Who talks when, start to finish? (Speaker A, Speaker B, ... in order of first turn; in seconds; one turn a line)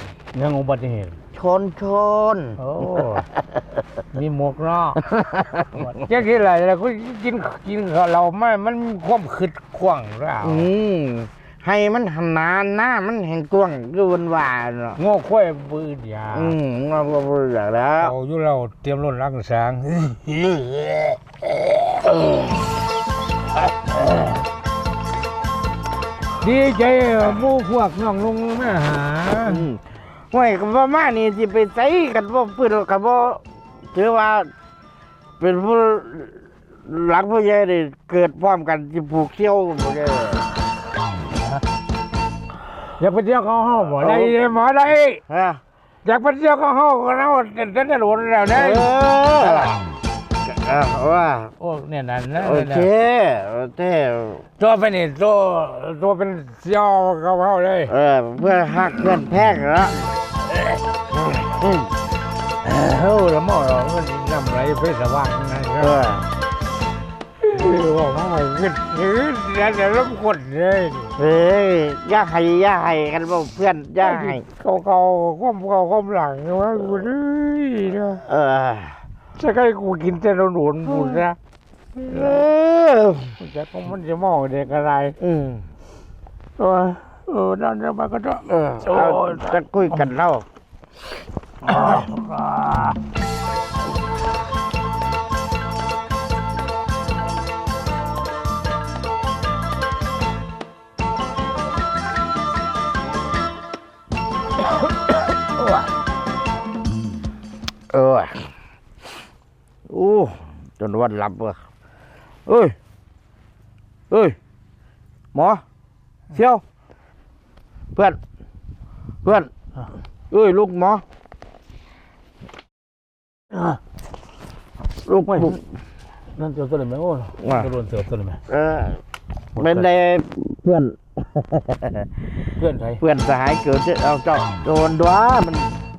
Speaker A: 0.3-1.2
Speaker B: 1.3-2.6
Speaker A: 2.6-3.3
Speaker A: 4.1-5.0
Speaker B: 5.1-5.7
Speaker A: 5.7-10.7
Speaker B: 10.4-15.0
Speaker A: 15.0-16.6
Speaker B: 16.3-18.1
Speaker A: 18.0-21.2
Speaker A: 26.4-29.7
Speaker B: 29.4-33.4
Speaker B: 33.9-34.5
Speaker B: 35.4-40.4
Speaker A: 42.9-45.2
Speaker B: 44.0-44.3
Speaker B: 45.3-45.6
Speaker A: 46.0-49.8
Speaker B: 48.5-49.8
Speaker B: 50.4-51.5
Speaker A: 51.6-52.9
Speaker B: 52.4-54.4
Speaker A: 54.6-57.9
Speaker B: 57.9-60.0
Speaker A: 62.6-66.1
Speaker B: 65.8-66.3
Speaker A: 67.4-71.2
Speaker B: 71.2-74.4
Speaker A: 74.0-78.2
Speaker B: 78.2-79.0
Speaker A: 79.3-81.4
Speaker A: 82.0-82.4
Speaker B: 82.0-83.3
Speaker A: 83.4-85.2
Speaker B: 85.2-85.6
Speaker A: 86.6-89.6
Speaker B: 88.8-90.4
Speaker A: 91.6-93.0
Speaker B: 107.9-108.5
Speaker B: 109.9-111.6
Speaker B: 112.5-112.7
Speaker B: 114.1-114.3
Speaker B: 115.3-115.6
Speaker B: 116.3-116.6
Speaker B: 119.2-119.5
Speaker B: 120.3-121.0
Speaker A: 123.5-123.8
Speaker B: 125.0-125.6
Speaker A: 125.3-125.6
Speaker A: 126.3-128.4
Speaker B: 127.4-127.7
Speaker B: 128.5-129.0
Speaker A: 129.5-129.9
Speaker B: 129.6-132.1
Speaker A: 132.5-133.0
Speaker B: 133.0-135.8